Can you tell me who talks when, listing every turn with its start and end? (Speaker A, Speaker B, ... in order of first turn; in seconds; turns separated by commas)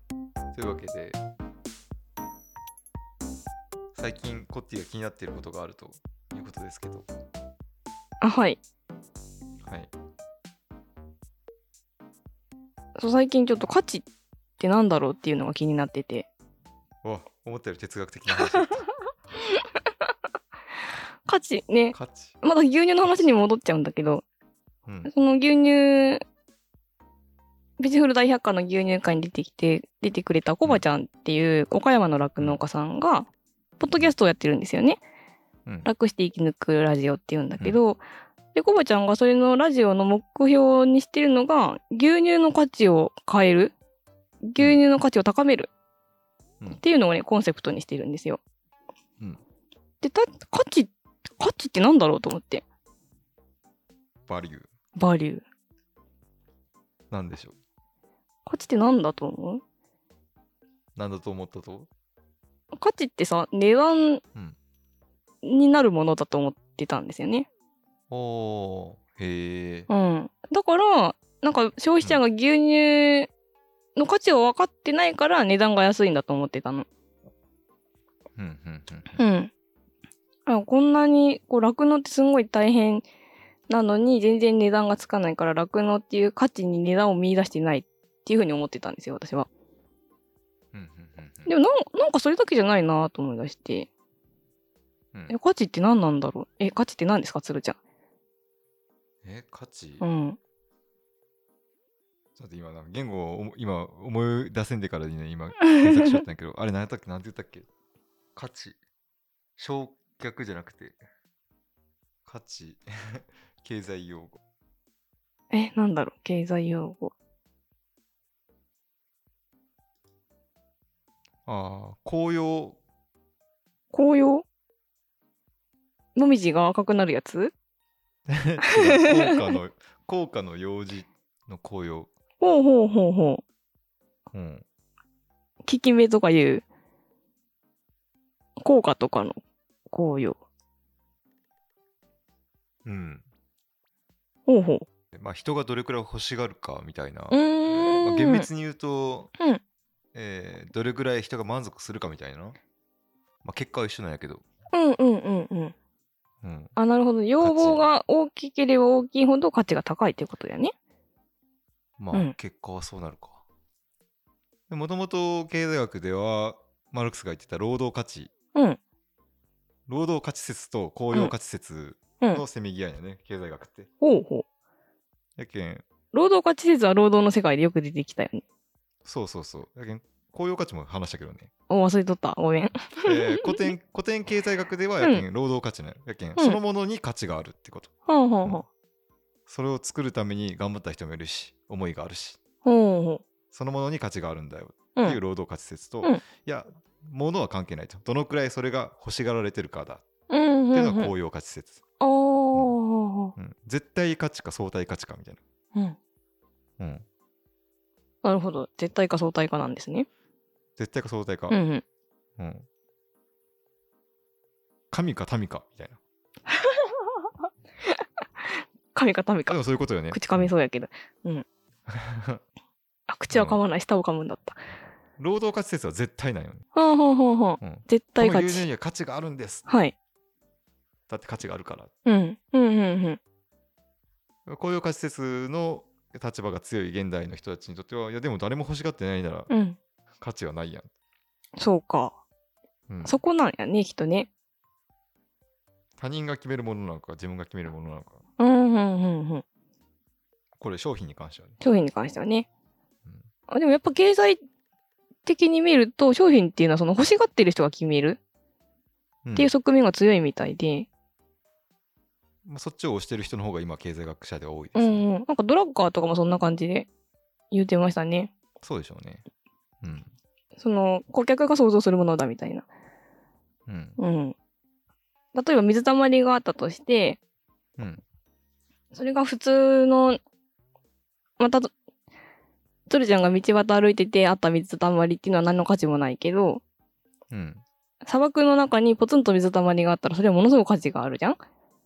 Speaker A: 0.5-1.2, Speaker A: 3.9-7.1, Speaker B: 8.2-8.6, Speaker A: 9.6-9.9, Speaker B: 13.0-14.1, Speaker B: 14.6-16.3, Speaker A: 17.0-18.8, Speaker B: 18.5-18.8, Speaker B: 19.4-20.1, Speaker B: 21.2-24.2, Speaker A: 21.9-22.3, Speaker A: 24.9-25.1, Speaker B: 25.1-26.2, Speaker B: 27.8-33.3, Speaker B: 33.8-35.0, Speaker B: 35.8-38.0, Speaker B: 38.5-43.7, Speaker B: 44.4-45.7, Speaker B: 46.8-48.4, Speaker B: 50.0-52.6, Speaker A: 54.3-54.7, Speaker B: 55.0-55.4, Speaker A: 57.1-57.5, Speaker B: 58.5-59.6, Speaker A: 61.0-61.9, Speaker B: 62.8-64.2, Speaker B: 65.4-67.5, Speaker A: 68.1-69.9, Speaker B: 69.9-73.3, Speaker B: 74.0-76.8, Speaker A: 78.4-79.2, Speaker B: 79.2-79.5, Speaker B: 80.5-83.0, Speaker B: 83.7-89.5, Speaker A: 90.7-91.5, Speaker B: 91.5-93.9, Speaker B: 95.3-97.8, Speaker A: 99.2-100.0, Speaker B: 100.0-100.4, Speaker A: 102.3-107.7, Speaker B: 105.6-106.2, Speaker A: 108.3-108.8, Speaker A: 109.6-111.0, Speaker A: 112.2-114.4, Speaker B: 115.5-117.1, Speaker A: 121.5-122.8, Speaker B: 123.9-124.4, Speaker B: 126.1-127.5, Speaker A: 128.3-132.1, Speaker B: 128.7-129.3, Speaker B: 132.4-133.4, Speaker A: 134.3-134.6, Speaker B: 135.6-136.7, Speaker B: 138.6-139.4, Speaker B: 139.9-140.4, Speaker A: 142.8-143.2, Speaker B: 144.5-144.8, Speaker A: 145.1-149.3, Speaker B: 147.3-148.5, Speaker A: 150.1-152.6, Speaker A: 153.4-154.5, Speaker B: 154.7-155.7, Speaker A: 156.4-156.8, Speaker B: 156.8-160.7, Speaker A: 157.4-157.9, Speaker A: 162.0-163.4, Speaker A: 164.7-168.3, Speaker B: 168.5-168.8, Speaker A: 169.9-173.9, Speaker B: 174.0-174.4, Speaker A: 175.4-175.9, Speaker B: 176.1-178.4, Speaker A: 179.0-181.5, Speaker B: 181.7-183.5, Speaker A: 183.0-187.9, Speaker B: 188.1-188.6, Speaker A: 189.5-192.4, Speaker B: 192.6-193.2, Speaker A: 193.5-200.0, Speaker B: 200.3-201.1, Speaker A: 200.7-201.8, Speaker B: 202.0-203.3, Speaker A: 203.3-205.4, Speaker A: 206.8-207.0, Speaker B: 208.2-210.1, Speaker A: 210.8-211.6, Speaker B: 211.5-211.8, Speaker A: 212.4-212.7, Speaker A: 214.9-216.0, Speaker B: 216.5-217.0, Speaker B: 218.9-219.6, Speaker A: 219.5-220.5, Speaker B: 220.1-221.4, Speaker A: 221.9-222.4, Speaker B: 223.1-224.6, Speaker A: 223.3-223.6, Speaker A: 225.2-226.6, Speaker B: 226.7-228.6, Speaker A: 227.6-229.6, Speaker B: 229.7-229.9, Speaker A: 231.1-231.9, Speaker B: 232.1-233.2, Speaker A: 234.4-239.5, Speaker B: 239.5-239.8, Speaker A: 240.2-240.9, Speaker B: 241.6-242.2, Speaker A: 242.9-243.2, Speaker B: 243.0-244.3, Speaker A: 246.0-248.2, Speaker B: 248.4-249.4, Speaker A: 250.6-251.6, Speaker B: 251.6-252.5, Speaker B: 253.5-254.4, Speaker B: 255.2-258.2, Speaker A: 259.2-259.5, Speaker B: 259.4-260.9, Speaker A: 262.4-265.1, Speaker B: 264.7-266.9, Speaker B: 267.5-268.3, Speaker A: 268.6-269.2, Speaker A: 269.8-270.1, Speaker B: 270.6-272.6, Speaker A: 273.7-274.0, Speaker B: 274.0-274.4, Speaker B: 275.3-277.2, Speaker A: 277.8-278.0, Speaker B: 278.9-280.2, Speaker B: 281.4-281.7, Speaker B: 282.9-286.6, Speaker A: 287.3-287.6, Speaker B: 288.0-291.4